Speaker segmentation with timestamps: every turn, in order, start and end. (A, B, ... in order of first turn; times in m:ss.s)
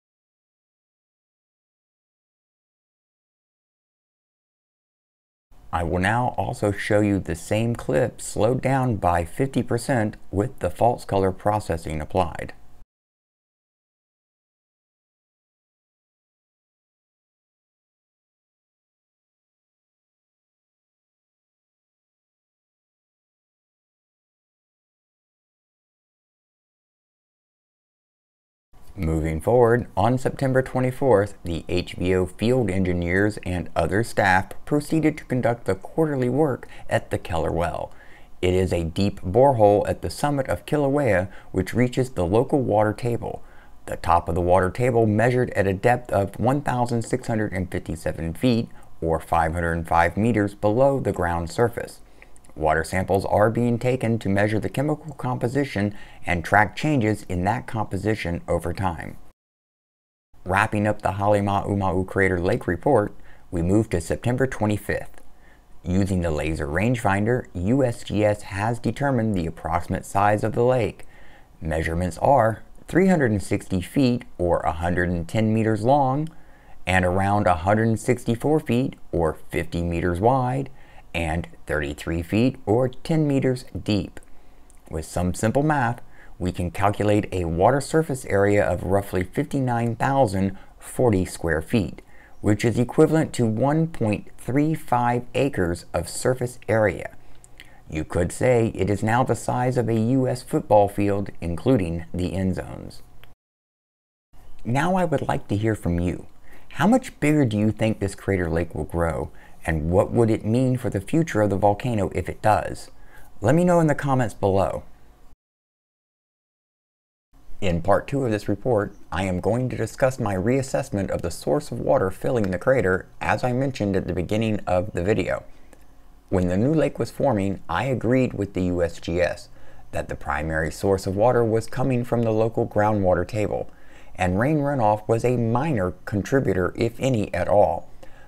0:05.7-0:12.5 A
0:29.0-0:52.0 A
0:52.6-0:59.2 A
1:00.4-1:05.2 A
1:05.8-1:11.1 A
1:11.6-1:16.3 A
1:16.9-1:24.2 A
1:24.9-1:37.1 A
1:37.9-1:43.0 A
1:44.6-1:54.8 A
1:57.6-2:05.4 A
2:06.3-2:17.9 A